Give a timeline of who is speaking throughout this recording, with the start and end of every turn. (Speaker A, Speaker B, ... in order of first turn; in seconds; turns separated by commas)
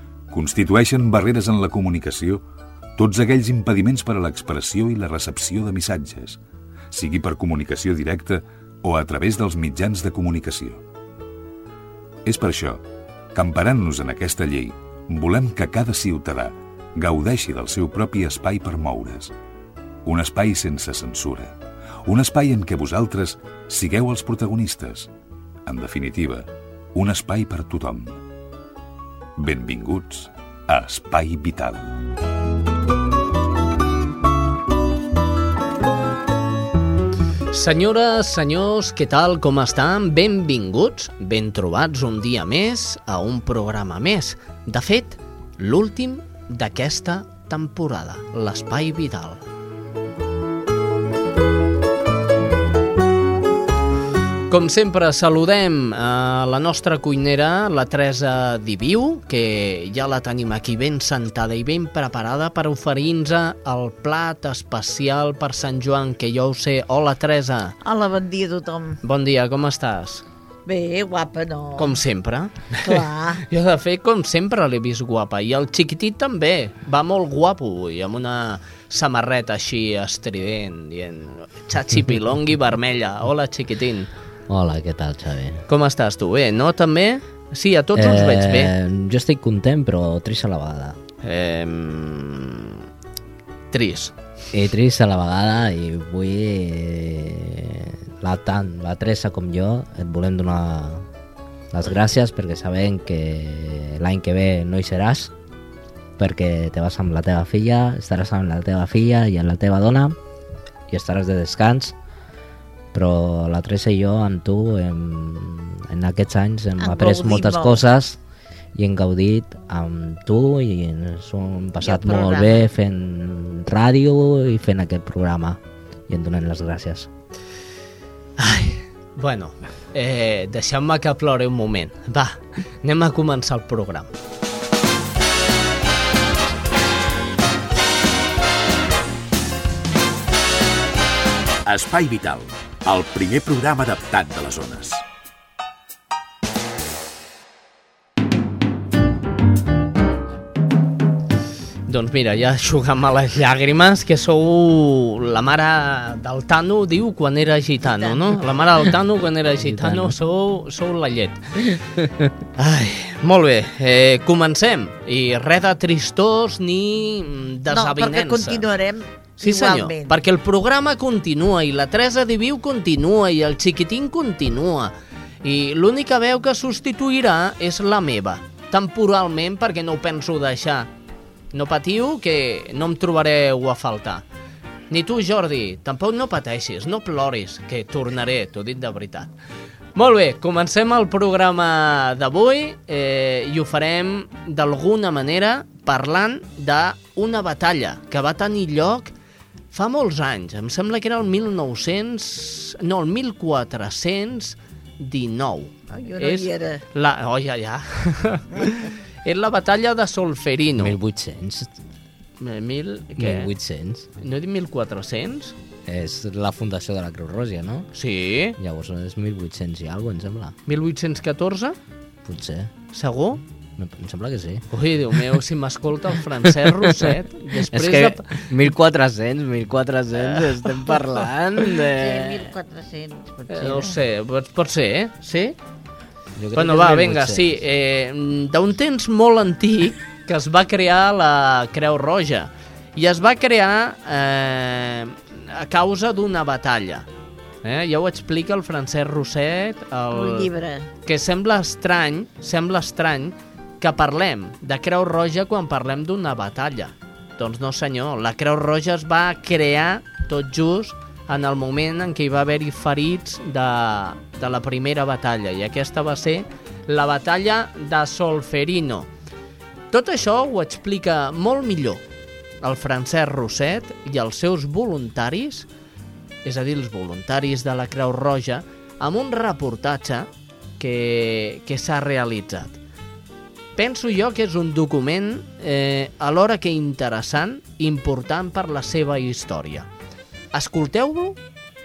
Speaker A: 0.3-2.4, Speaker A: 3.0-6.4, Speaker A: 6.9-10.8, Speaker A: 12.2-12.8, Speaker A: 13.3-19.3, Speaker A: 20.0-21.5, Speaker A: 22.1-25.1, Speaker A: 25.7-28.2, Speaker A: 29.4-31.9, Speaker B: 37.5-49.4, Speaker B: 54.5-67.7, Speaker C: 67.8-69.0, Speaker B: 69.0-70.2, Speaker C: 70.7-72.0, Speaker B: 71.8-84.1, Speaker C: 72.8-73.4, Speaker D: 84.5-85.6, Speaker B: 85.7-88.7, Speaker D: 87.9-91.0, Speaker B: 91.2-92.8, Speaker B: 93.7-94.1, Speaker D: 94.5-101.0, Speaker D: 101.7-105.3, Speaker D: 106.2-110.2, Speaker D: 110.9-112.0, Speaker D: 112.9-118.2, Speaker C: 116.8-117.8, Speaker D: 118.7-127.1, Speaker C: 121.8-122.7, Speaker B: 128.4-134.1, Speaker E: 141.7-142.3, Speaker E: 142.9-144.9, Speaker A: 144.4-144.8, Speaker B: 151.9-161.6, Speaker C: 157.9-158.4, Speaker D: 159.6-160.1, Speaker B: 162.6-168.7, Speaker C: 167.7-170.2, Speaker B: 169.4-180.9, Speaker B: 181.5-184.2, Speaker B: 184.9-189.3, Speaker B: 189.9-199.1, Speaker B: 199.7-210.9, Speaker C: 205.9-206.8, Speaker D: 210.8-211.7, Speaker B: 212.4-213.5, Speaker D: 213.2-214.1, Speaker B: 214.2-215.5, Speaker D: 215.8-217.9, Speaker B: 217.9-218.6, Speaker D: 218.6-220.5, Speaker B: 220.7-221.8, Speaker D: 222.2-222.7, Speaker B: 222.9-223.4, Speaker D: 223.8-224.6, Speaker B: 224.7-228.7, Speaker D: 226.5-231.9, Speaker B: 230.2-232.5, Speaker C: 232.0-233.9, Speaker B: 233.5-235.6, Speaker D: 236.3-237.6, Speaker B: 236.5-247.1, Speaker B: 247.6-250.5, Speaker C: 250.1-250.9, Speaker B: 251.0-269.1, Speaker B: 269.9-272.0, Speaker B: 272.6-275.6, Speaker B: 276.4-282.8, Speaker B: 283.8-289.9, Speaker B: 290.5-291.4